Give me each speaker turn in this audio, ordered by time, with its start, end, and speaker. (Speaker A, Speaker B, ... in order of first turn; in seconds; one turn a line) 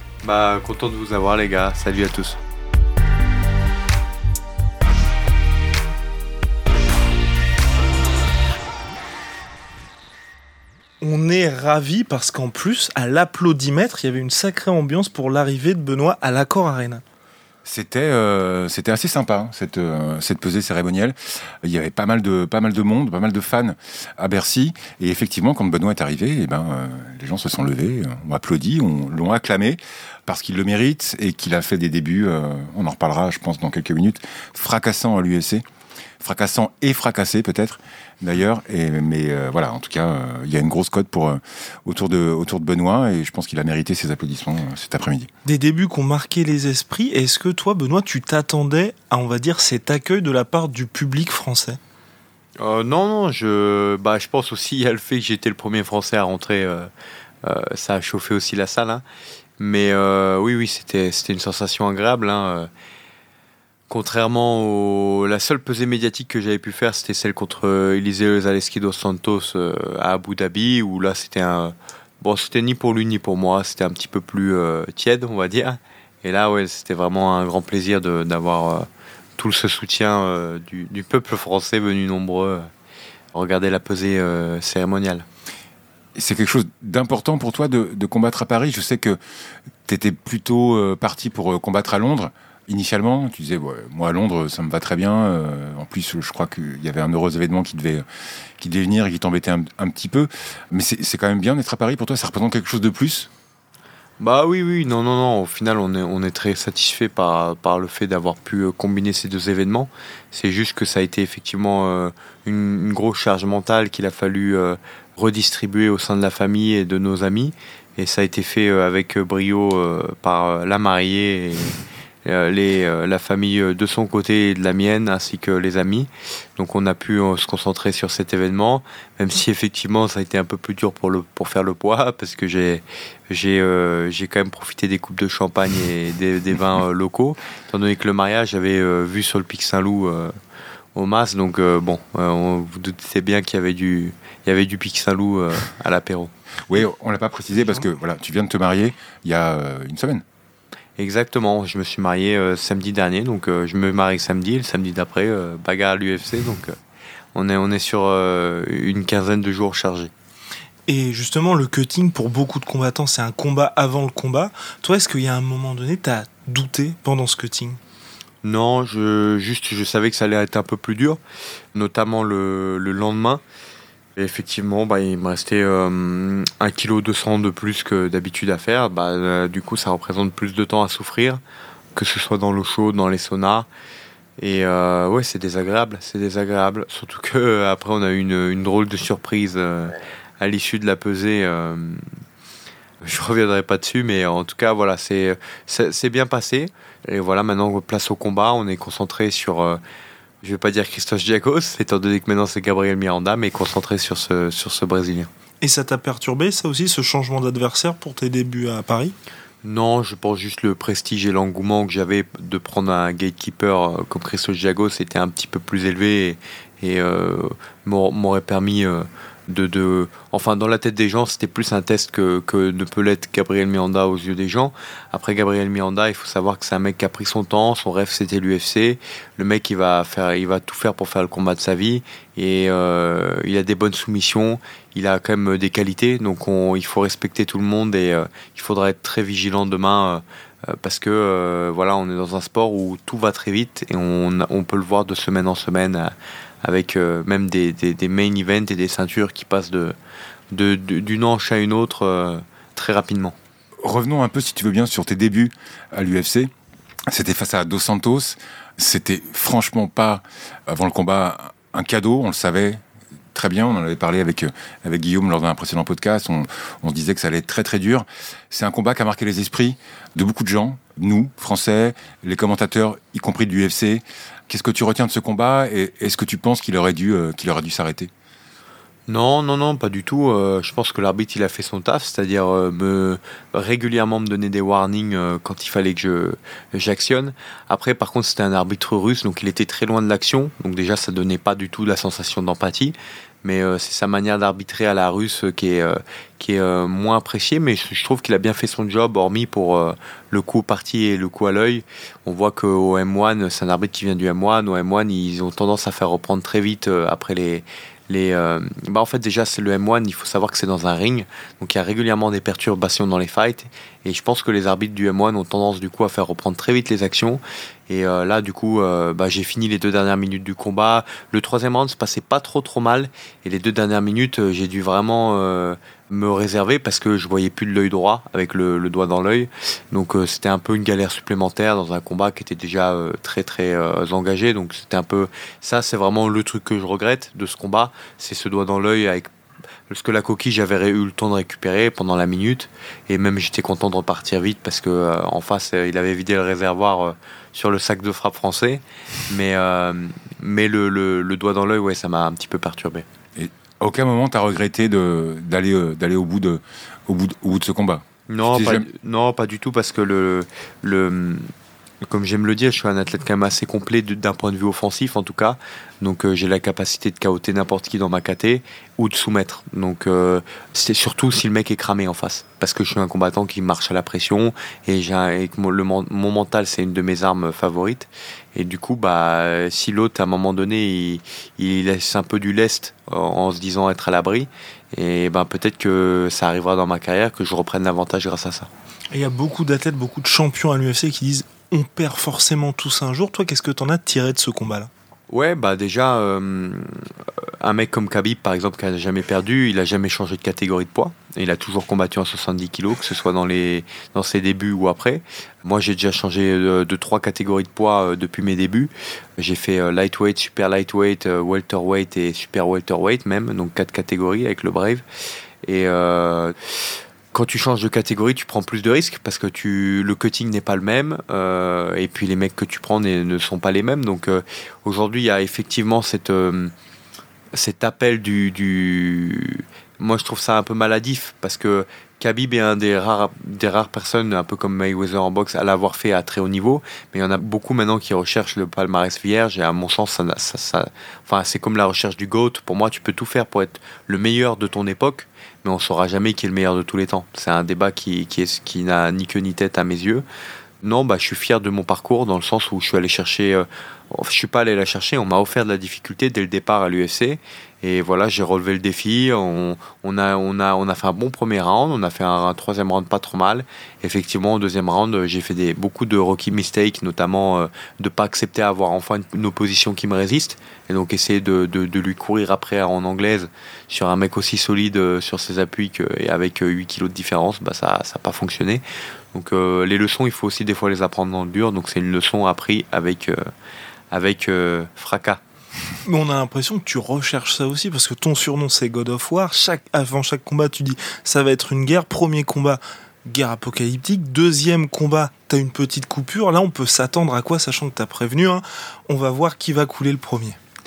Speaker A: 0.2-2.4
Speaker B: 11.0-17.0
Speaker C: 17.6-35.6
Speaker C: 36.2-45.3
Speaker B: 45.5-51.8
Speaker A: 52.6-56.9
Speaker A: 57.4-59.0
Speaker A: 59.6-62.7
Speaker A: 63.9-78.9
Speaker A: 79.4-82.7
Speaker A: 83.3-85.3
Speaker C: 86.2-89.2
Speaker C: 89.9-98.0
Speaker C: 98.6-103.3
Speaker A: 104.2-140.3
Speaker A: 140.9-146.3
Speaker C: 146.7-150.2
Speaker A: 151.0-156.8
Speaker A: 157.3-160.1
Speaker B: 160.9-167.8
Speaker A: 168.4-171.2
Speaker A: 171.7-173.4
Speaker A: 174.2-181.4
Speaker A: 181.9-183.7
Speaker A: 184.4-192.1
Speaker A: 193.0-199.8
Speaker A: 200.4-205.3
Speaker B: 205.6-209.2
Speaker A: 209.6-249.9
Speaker A: 250.5-253.3
Speaker C: 253.8-256.5
Speaker C: 257.1-262.8
Speaker C: 263.3-278.1
Speaker A: 279.1-339.3
Speaker A: 339.9-353.1
Speaker C: 353.4-358.9
Speaker A: 358.3-361.5
Speaker A: 362.0-388.7
Speaker B: 389.1-394.9
Speaker A: 395.3-397.1
Speaker A: 397.6-415.0
Speaker A: 415.6-416.6
Speaker A: 417.3-426.7
Speaker A: 427.5-450.2
Speaker A: 450.8-483.4
Speaker A: 484.1-485.4
Speaker B: 486.1-500.6